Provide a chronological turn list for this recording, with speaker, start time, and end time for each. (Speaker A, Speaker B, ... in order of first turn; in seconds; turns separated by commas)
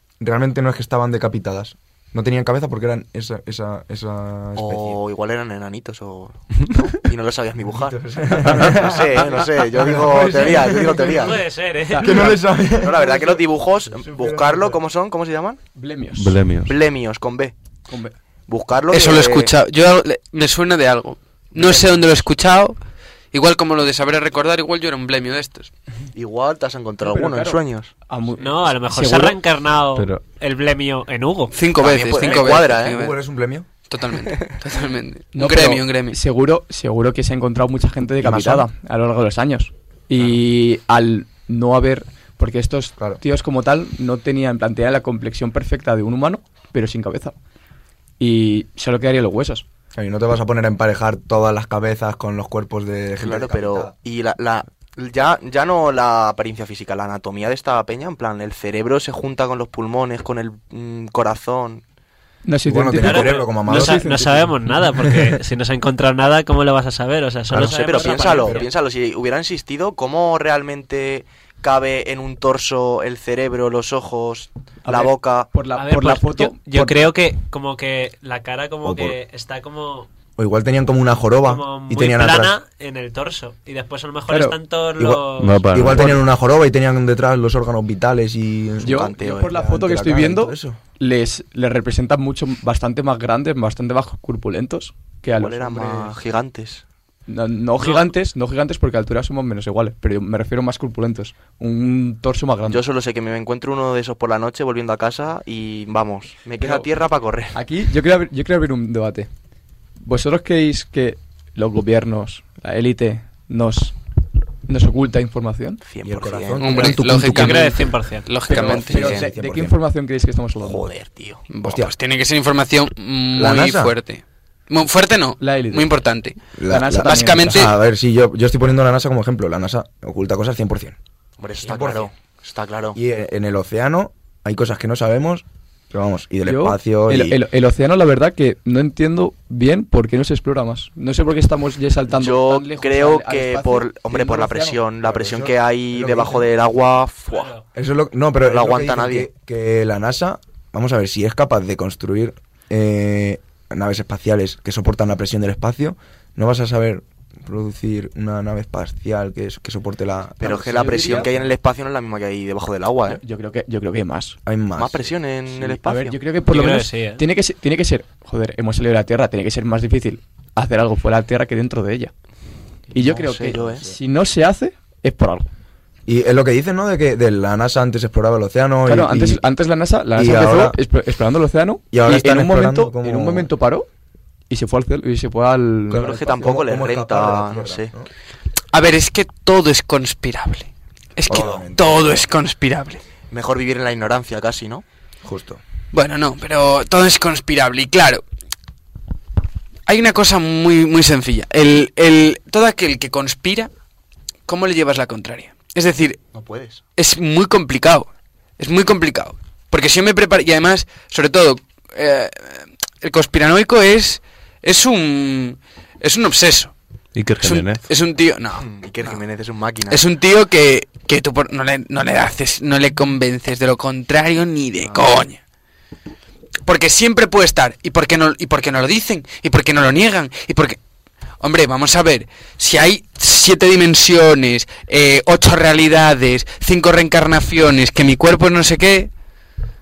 Speaker A: 0.2-5.0, Speaker B: 4.6-11.4, Speaker A: 7.7-11.3, Speaker C: 11.2-12.3, Speaker D: 11.9-12.5, Speaker A: 12.0-13.2, Speaker B: 12.8-15.6, Speaker C: 14.0-14.2, Speaker A: 14.1-14.8, Speaker D: 15.8-16.4, Speaker E: 16.2-16.8, Speaker B: 16.6-17.5, Speaker D: 17.9-18.1, Speaker B: 18.5-19.5, Speaker F: 18.9-22.8, Speaker B: 21.5-22.1, Speaker F: 23.3-25.7, Speaker B: 26.1-27.9, Speaker D: 27.0-29.4, Speaker C: 28.4-32.5, Speaker E: 29.9-30.2, Speaker F: 31.5-33.1, Speaker B: 31.8-33.0, Speaker A: 32.9-33.7, Speaker F: 33.9-36.2, Speaker D: 35.3-47.4, Speaker A: 38.2-38.7, Speaker D: 48.2-49.6, Speaker A: 50.0-53.9, Speaker B: 53.2-61.8, Speaker D: 62.5-64.6, Speaker A: 62.6-64.0, Speaker C: 63.0-68.7, Speaker A: 67.5-68.6, Speaker B: 67.6-75.5, Speaker D: 74.8-77.1, Speaker C: 75.8-80.1, Speaker A: 78.8-79.2, Speaker A: 80.4-82.6, Speaker C: 81.3-85.7, Speaker D: 84.3-84.6, Speaker A: 85.0-90.8, Speaker E: 85.4-86.2, Speaker D: 88.8-96.2, Speaker B: 88.8-89.6, Speaker B: 95.4-96.8, Speaker D: 97.3-102.8, Speaker C: 97.8-98.1, Speaker B: 102.7-107.6, Speaker D: 106.6-106.9, Speaker D: 107.5-109.3, Speaker D: 110.0-114.0, Speaker D: 114.7-115.8, Speaker B: 115.8-117.5, Speaker A: 116.0-117.4, Speaker F: 116.6-119.1, Speaker C: 117.1-118.4, Speaker D: 118.5-120.9, Speaker A: 118.5-119.8, Speaker B: 118.9-119.3, Speaker B: 120.6-121.4, Speaker F: 121.5-126.4, Speaker A: 121.6-122.0, Speaker A: 123.4-124.0, Speaker D: 125.4-126.0, Speaker A: 126.6-131.0, Speaker D: 126.7-127.7, Speaker F: 127.0-127.7, Speaker B: 131.4-133.0, Speaker A: 131.6-132.1, Speaker A: 132.9-137.4, Speaker D: 136.4-144.8, Speaker B: 142.1-147.5, Speaker A: 145.0-146.5, Speaker C: 147.3-147.6, Speaker A: 147.8-161.5, Speaker B: 148.4-149.3, Speaker B: 160.4-163.2, Speaker D: 160.7-161.3, Speaker D: 163.1-164.4, Speaker A: 164.5-165.2, Speaker B: 164.8-166.2, Speaker D: 165.5-172.1, Speaker C: 166.5-167.2, Speaker B: 172.9-173.9, Speaker D: 172.9-175.5, Speaker A: 176.1-179.4, Speaker D: 178.9-183.9, Speaker A: 180.2-180.8, Speaker A: 181.9-183.5, Speaker D: 184.5-186.2, Speaker A: 185.9-188.1, Speaker B: 186.0-187.9, Speaker F: 188.7-193.0, Speaker A: 191.3-192.3, Speaker B: 191.3-191.6, Speaker B: 193.3-194.8, Speaker A: 195.2-195.6, Speaker F: 195.9-198.2, Speaker F: 199.9-203.7, Speaker F: 204.5-206.2, Speaker B: 206.3-206.8, Speaker F: 207.0-208.1, Speaker F: 208.6-216.7, Speaker E: 217.2-217.9, Speaker F: 217.4-219.2, Speaker B: 218.6-220.0, Speaker F: 219.9-225.4, Speaker B: 224.8-225.2, Speaker F: 226.7-230.8, Speaker F: 231.4-239.1